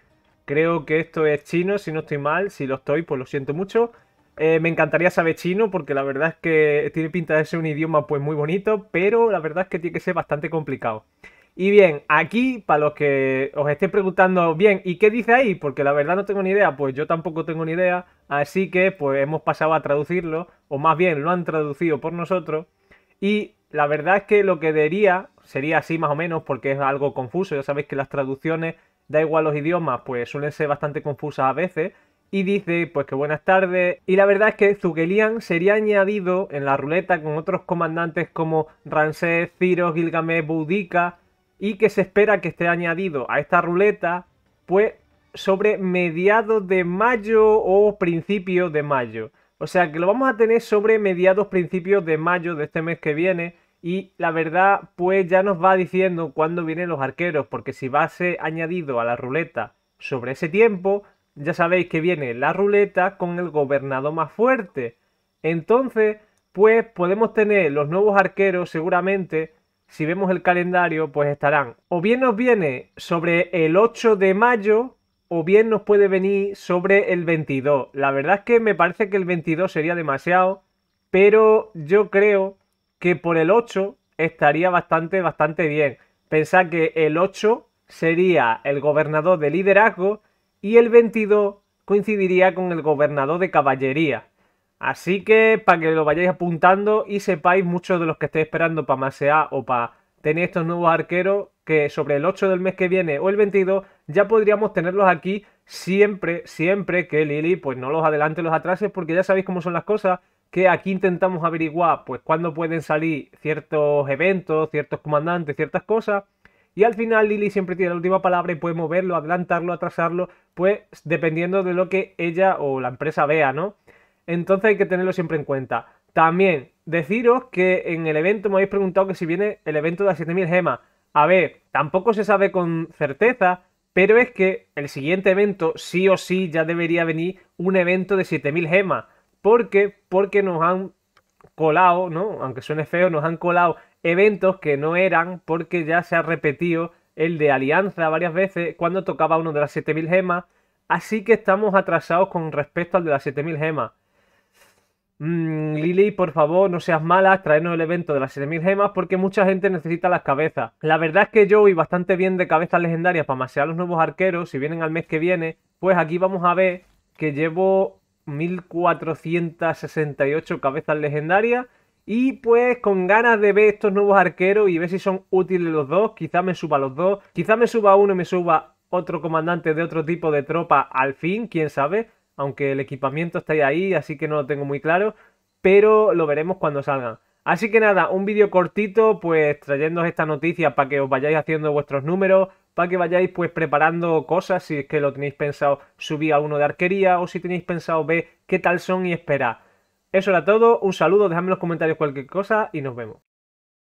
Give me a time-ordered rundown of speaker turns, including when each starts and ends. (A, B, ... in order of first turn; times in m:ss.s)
0:00.4-0:11.0 A
0:11.6-0:22.7 A
0:23.2-1:34.3 A
1:34.8-2:20.9 A
2:21.6-2:33.9 A
2:35.2-3:19.6 A
3:20.1-3:23.2 A